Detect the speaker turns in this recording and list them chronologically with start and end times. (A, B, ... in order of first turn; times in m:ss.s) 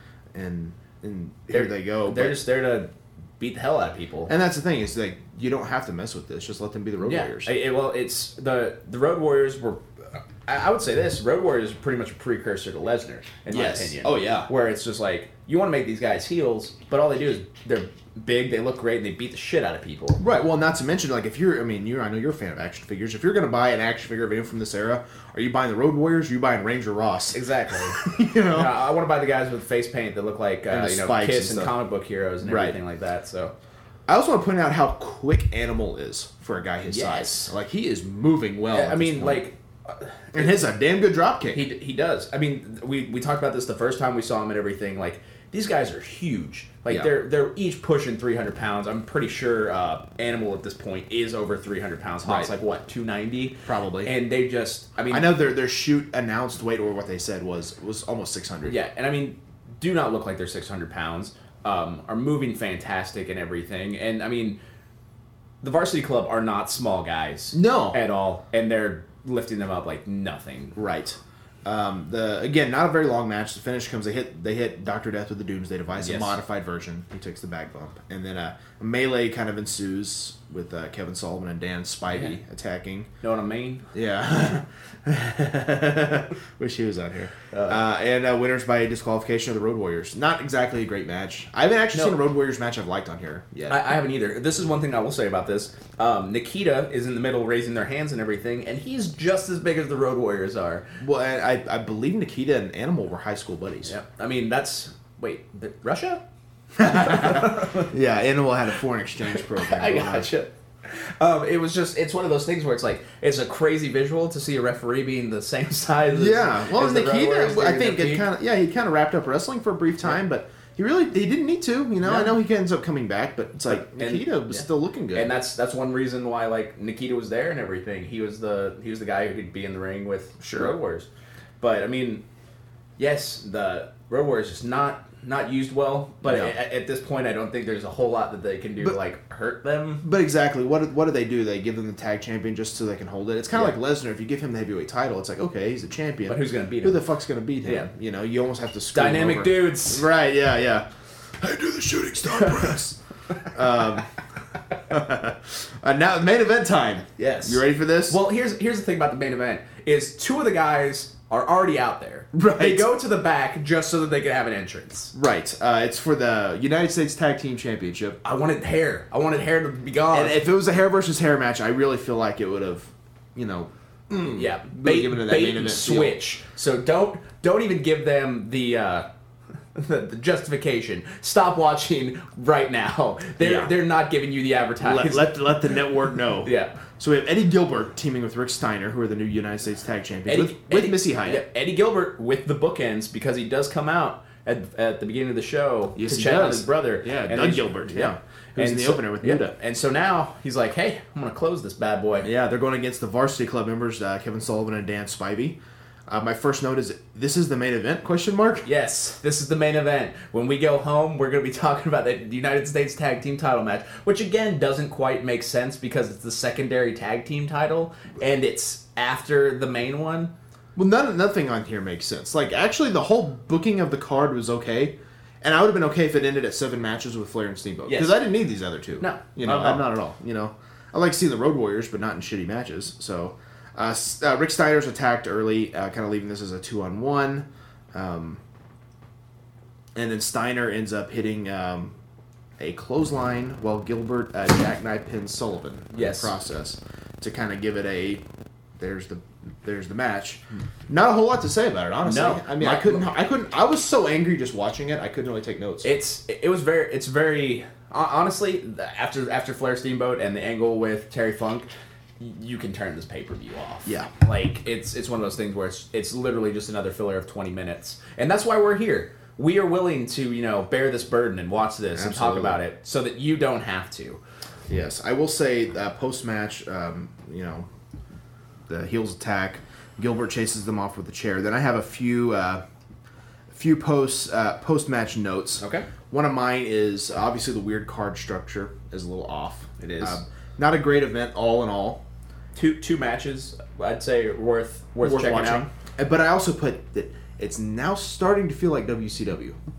0:00.3-0:02.4 A
0:01.5-0:04.3 B
0:04.3-0:07.5 A
0:07.0-0:20.2 B
0:13.5-0:14.5 A
0:20.2-0:27.4 A
0:27.3-0:33.5 B
0:27.9-0:28.7 A
0:30.7-0:31.7 A
0:32.4-0:32.8 A
0:34.1-0:39.4 A
0:36.8-0:37.5 B
0:38.7-0:40.5 B
0:40.3-0:41.6 A
0:41.5-0:55.3 B
0:52.2-0:52.5 A
0:53.6-0:54.1 A
0:55.1-0:58.8 A
0:58.7-1:04.6 B
1:05.6-1:10.8 B
1:07.5-1:08.0 A
1:10.8-1:23.1 A
1:16.0-1:16.4 B
1:23.2-1:23.9 B
1:23.9-1:33.8 A
1:27.5-1:27.8 B
1:33.7-1:40.8 B
1:41.0-1:43.9 A
1:43.8-1:46.2 B
1:46.8-1:47.9 B
1:46.8-1:50.3 A
1:49.3-1:58.3 B
1:56.1-2:05.3 A
2:02.0-2:02.4 B
2:03.7-2:11.1 B
2:10.4-2:10.7 A
2:11.6-2:12.2 B
2:13.0-2:20.0 B
2:16.2-2:16.5 A
2:20.0-2:30.9 A
2:26.2-2:27.0 B
2:28.9-2:30.1 B
2:31.4-2:34.0 A
2:34.9-2:38.2 A
2:37.2-2:45.1 B
2:42.3-2:42.9 A
2:45.1-2:48.2 A
2:48.2-2:50.4 B
2:50.1-2:56.2 A
2:54.3-2:59.1 B
2:59.7-3:05.3 B
3:03.4-3:03.7 A
3:04.8-3:11.4 A
3:06.4-3:06.8 B
3:10.3-3:22.3 B
3:16.0-3:19.5 A
3:22.2-3:28.6 A
3:28.6-3:40.3 B
3:40.7-3:58.4 A
3:47.9-3:48.2 B
3:49.0-3:49.8 B
3:59.9-4:02.0 A
4:02.6-4:08.2 A
4:05.9-4:06.3 B
4:08.8-4:15.9 A
4:12.0-4:13.1 B
4:15.8-4:21.7 B
4:22.2-4:34.2 B
4:23.8-4:24.1 A
4:31.9-4:32.6 A
4:34.7-4:37.7 A
4:38.7-4:42.6 A
4:43.5-4:52.0 A
4:45.6-4:45.9 B
4:49.8-4:50.2 B
4:52.5-4:55.7 B
4:55.0-4:59.6 A